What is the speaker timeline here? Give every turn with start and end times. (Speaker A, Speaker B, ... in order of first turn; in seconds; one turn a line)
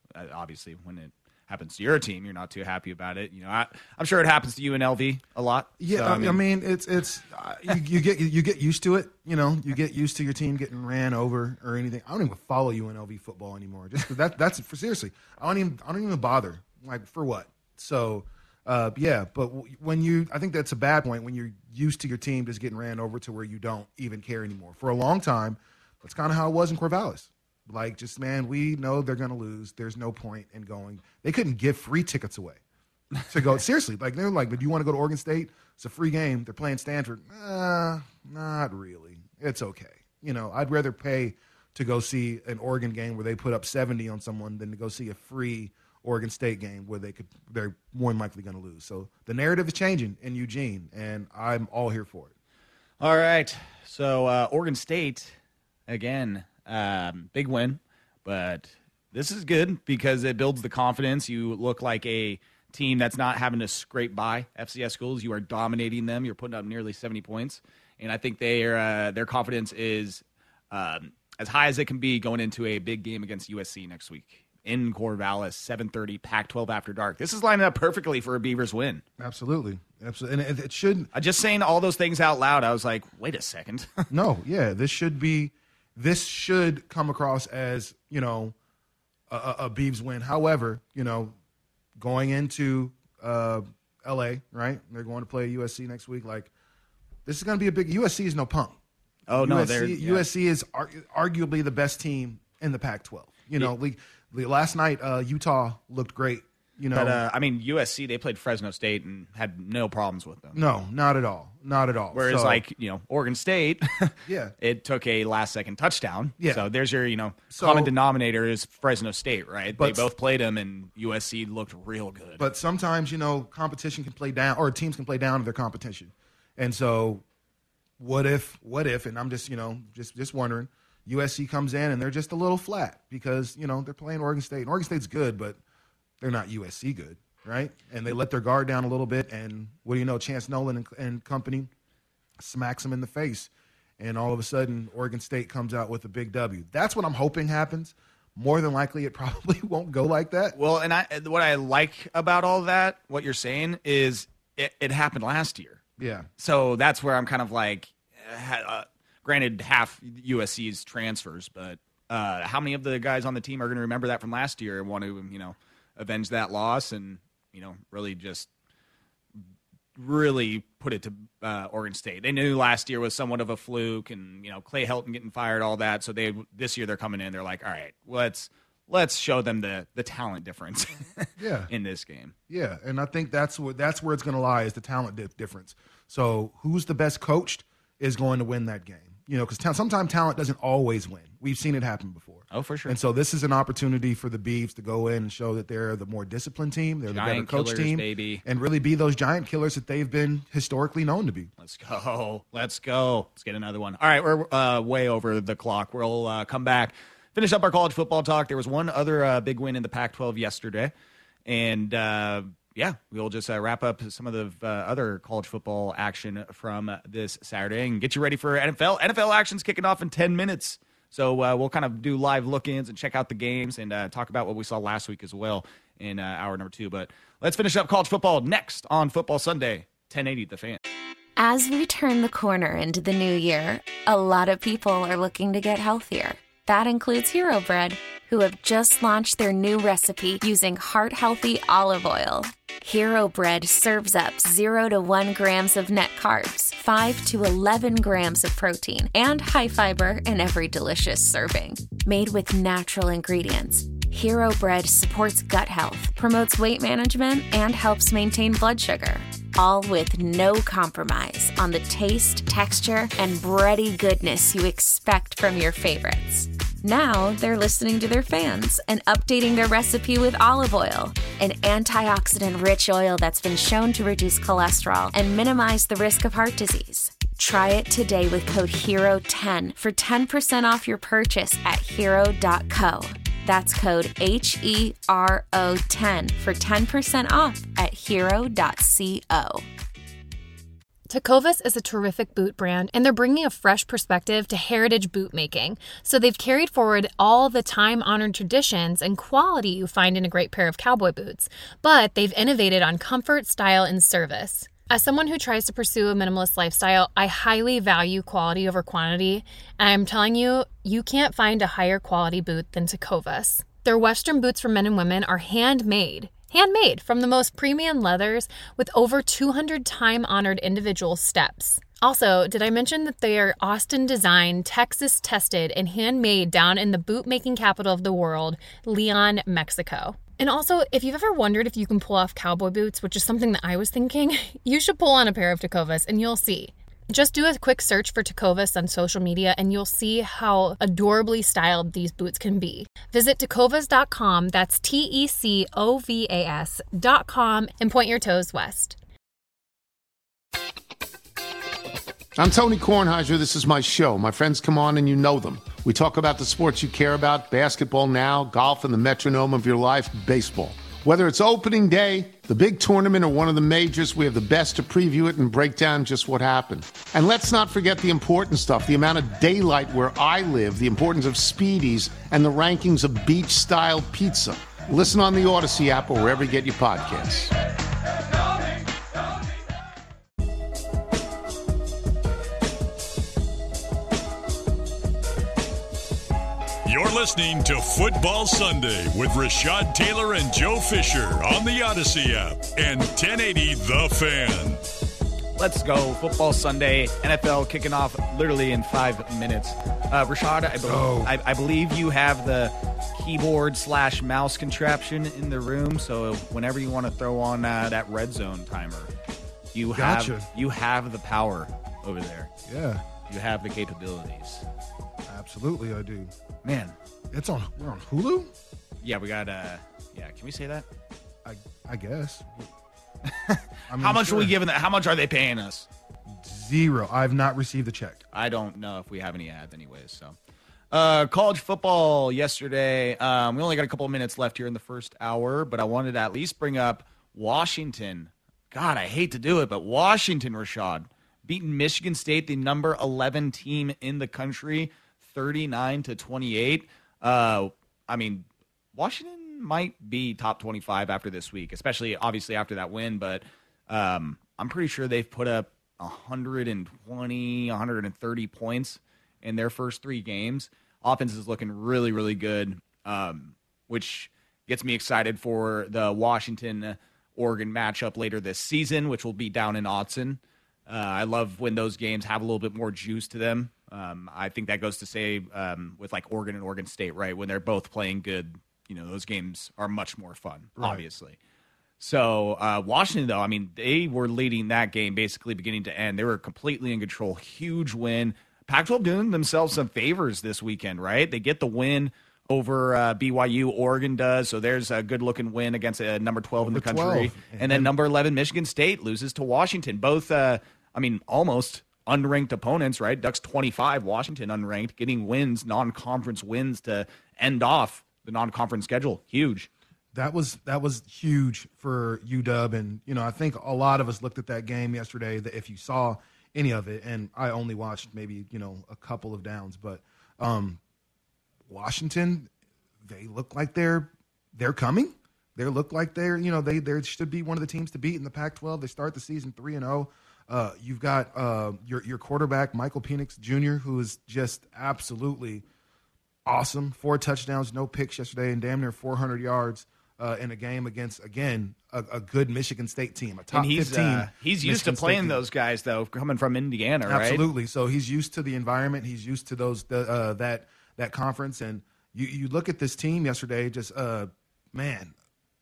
Speaker A: 0.1-6.4
Speaker B: 5.8-32.6
Speaker B: 33.3-52.3
Speaker A: 53.0-55.3
Speaker A: 55.9-79.0
Speaker B: 79.2-81.1
Speaker A: 81.1-84.1
Speaker B: 84.1-88.5
Speaker B: 89.3-91.3
Speaker B: 92.0-96.5
Speaker B: 97.2-98.8
Speaker A: 99.3-100.3
Speaker B: 99.3-107.2
Speaker A: 106.9-110.6
Speaker B: 110.5-112.6
Speaker A: 112.1-122.5
Speaker B: 114.2-114.5
Speaker B: 116.4-116.7
Speaker B: 117.5-117.9
Speaker B: 119.7-120.1
Speaker B: 122.4-127.2
Speaker B: 128.0-135.6
Speaker B: 136.2-141.7
Speaker B: 142.4-150.6
Speaker A: 150.5-155.8
Speaker B: 156.0-156.3
Speaker A: 156.4-168.5
Speaker A: 169.9-182.3
Speaker B: 181.4-181.7
Speaker B: 182.5-201.5
Speaker A: 192.5-193.0
Speaker A: 197.1-198.4
Speaker A: 201.6-210.9
Speaker A: 211.4-230.8
Speaker C: 231.4-289.6
Speaker D: 291.1-349.0
Speaker E: 352.4-377.5
Speaker F: 386.8-394.8
Speaker A: 395.6-409.1
Speaker B: 400.8-401.3
Speaker A: 409.7-412.5
Speaker B: 409.9-410.5
Speaker B: 412.7-413.0
Speaker A: 413.3-414.6
Speaker B: 415.3-416.3
Speaker A: 416.6-416.9
Speaker B: 417.3-418.5
Speaker A: 419.0-420.9
Speaker B: 421.4-422.7
Speaker A: 423.2-425.9
Speaker B: 423.9-424.6
Speaker B: 426.4-428.2
Speaker A: 428.3-430.4
Speaker A: 430.9-481.4
Speaker B: 480.8-481.0
Speaker A: 482.0-509.7
Speaker B: 496.6-497.9
Speaker B: 510.1-520.8
Speaker B: 521.7-522.5
Speaker B: 523.0-535.6
Speaker B: 536.4-545.4
Speaker A: 543.5-547.5
Speaker B: 547.0-555.1